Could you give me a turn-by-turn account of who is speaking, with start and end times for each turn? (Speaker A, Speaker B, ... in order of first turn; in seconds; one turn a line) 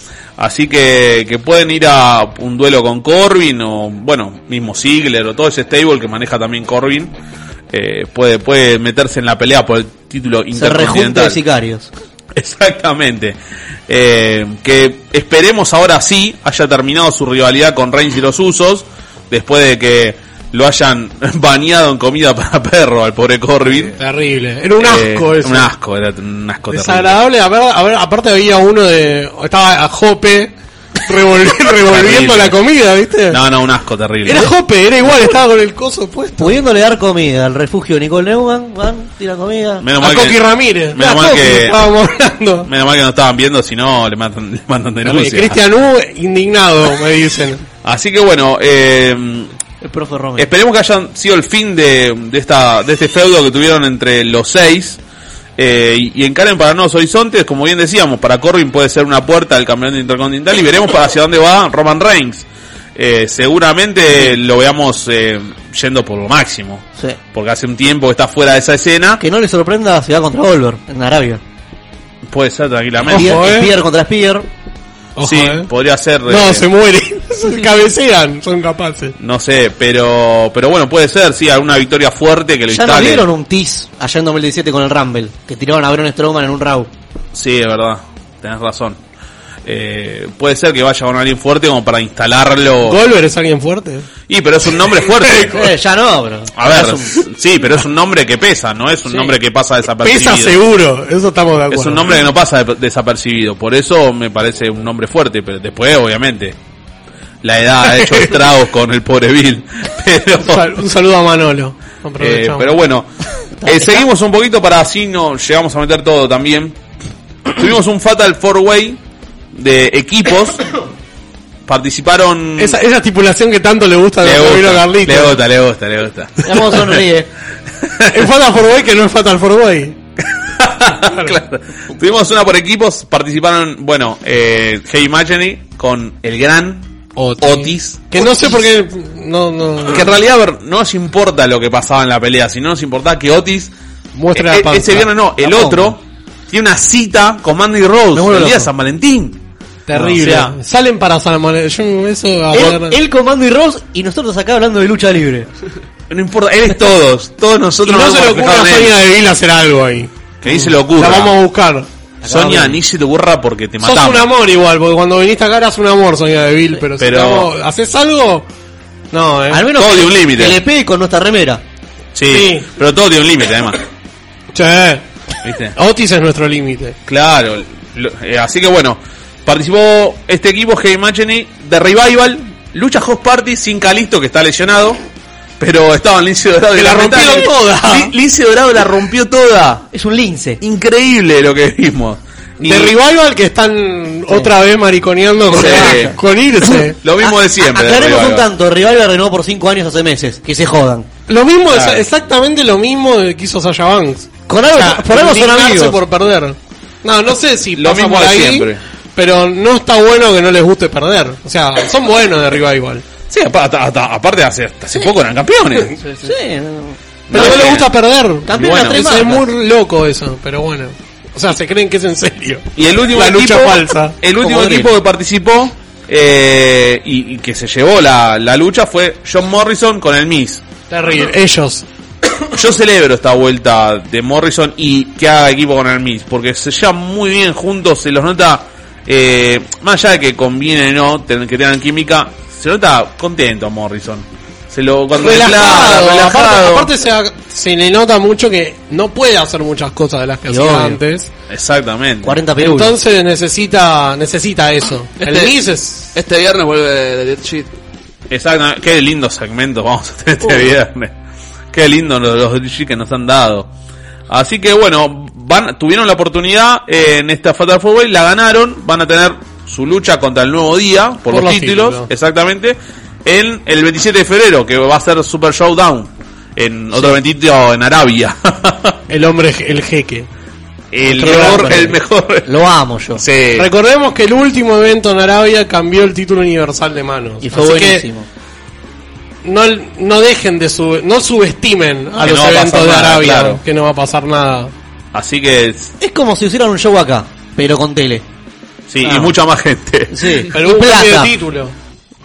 Speaker A: 0.4-7.1
Speaker A: 7.7-11.4
Speaker B: 10.5-11.9
Speaker A: 12.3-13.4
Speaker A: 13.9-24.0
Speaker C: 23.9-25.7
Speaker A: 24.8-27.2
Speaker C: 26.7-30.5
Speaker C: 31.1-33.4
Speaker A: 31.8-32.6
Speaker A: 33.3-34.5
Speaker C: 34.2-36.5
Speaker B: 36.4-39.9
Speaker A: 39.8-41.8
Speaker C: 40.0-42.7
Speaker A: 42.7-45.6
Speaker C: 45.0-47.6
Speaker A: 47.8-49.5
Speaker B: 49.8-50.5
Speaker A: 50.4-55.0
Speaker A: 55.6-69.2
Speaker B: 69.2-71.4
Speaker A: 72.3-73.5
Speaker C: 73.1-73.7
Speaker B: 73.1-74.5
Speaker C: 75.2-75.7
Speaker A: 75.2-76.7
Speaker C: 76.3-79.2
Speaker A: 79.2-83.3
Speaker B: 82.7-86.9
Speaker A: 87.3-89.0
Speaker A: 89.7-93.0
Speaker C: 92.8-94.1
Speaker A: 94.3-95.7
Speaker B: 95.5-97.2
Speaker A: 96.6-100.6
Speaker C: 100.0-102.2
Speaker A: 101.7-106.6
Speaker A: 107.4-110.7
Speaker C: 110.4-112.8
Speaker A: 112.2-113.1
Speaker B: 113.6-114.0
Speaker A: 113.6-116.8
Speaker A: 117.5-119.0
Speaker A: 119.5-120.7
Speaker A: 121.7-122.8
Speaker C: 122.6-125.4
Speaker A: 124.2-127.0
Speaker B: 126.4-127.3
Speaker A: 127.8-128.2
Speaker C: 128.1-130.0
Speaker A: 130.5-138.5
Speaker C: 137.2-140.1
Speaker A: 139.9-143.7
Speaker C: 144.1-145.1
Speaker A: 144.3-149.4
Speaker B: 145.4-146.0
Speaker B: 148.1-148.7
Speaker C: 149.9-153.0
Speaker A: 149.9-150.6
Speaker B: 152.5-155.5
Speaker A: 156.1-159.0
Speaker C: 157.8-160.1
Speaker A: 160.4-161.3
Speaker C: 160.9-161.9
Speaker B: 162.2-162.8
Speaker A: 162.2-164.3
Speaker C: 163.8-168.5
Speaker A: 167.0-167.5
Speaker C: 169.1-169.7
Speaker B: 169.5-171.6
Speaker A: 169.8-170.6
Speaker A: 172.2-173.8
Speaker C: 172.3-172.7
Speaker C: 174.5-175.0
Speaker A: 175.4-175.8
Speaker C: 175.8-177.0
Speaker A: 177.1-185.0
Speaker A: 185.6-189.9
Speaker C: 186.8-188.1
Speaker B: 189.9-190.6
Speaker A: 190.6-193.0
Speaker C: 192.6-197.0
Speaker B: 194.3-194.5
Speaker A: 195.5-196.2
Speaker B: 195.5-196.2
Speaker A: 197.0-198.5
Speaker B: 197.2-201.1
Speaker C: 201.3-213.0
Speaker A: 201.7-202.1
Speaker B: 204.5-206.0
Speaker A: 207.8-208.8
Speaker A: 213.3-216.0
Speaker B: 216.1-217.7
Speaker A: 217.3-217.9
Speaker C: 217.3-224.2
Speaker B: 218.5-219.5
Speaker A: 218.5-219.3
Speaker A: 222.8-230.6
Speaker B: 224.4-224.9
Speaker C: 230.9-231.8
Speaker A: 232.5-246.9
Speaker C: 245.2-251.3
Speaker B: 250.5-251.0
Speaker A: 251.5-252.4
Speaker B: 252.2-253.0
Speaker C: 252.6-256.1
Speaker D: 255.2-255.6
Speaker D: 256.1-257.7
Speaker A: 258.3-261.1
Speaker A: 261.7-263.7
Speaker A: 264.3-279.0
Speaker C: 271.3-272.1
Speaker C: 279.1-280.3
Speaker A: 280.9-282.5
Speaker B: 281.1-283.2
Speaker C: 281.2-281.7
Speaker A: 283.2-283.7
Speaker C: 283.6-288.1
Speaker B: 287.4-288.3
Speaker C: 289.4-294.7
Speaker A: 292.2-293.6
Speaker A: 295.1-295.9
Speaker B: 296.0-298.2
Speaker A: 298.9-300.5
Speaker B: 299.0-299.4
Speaker B: 300.1-301.4
Speaker C: 300.5-301.8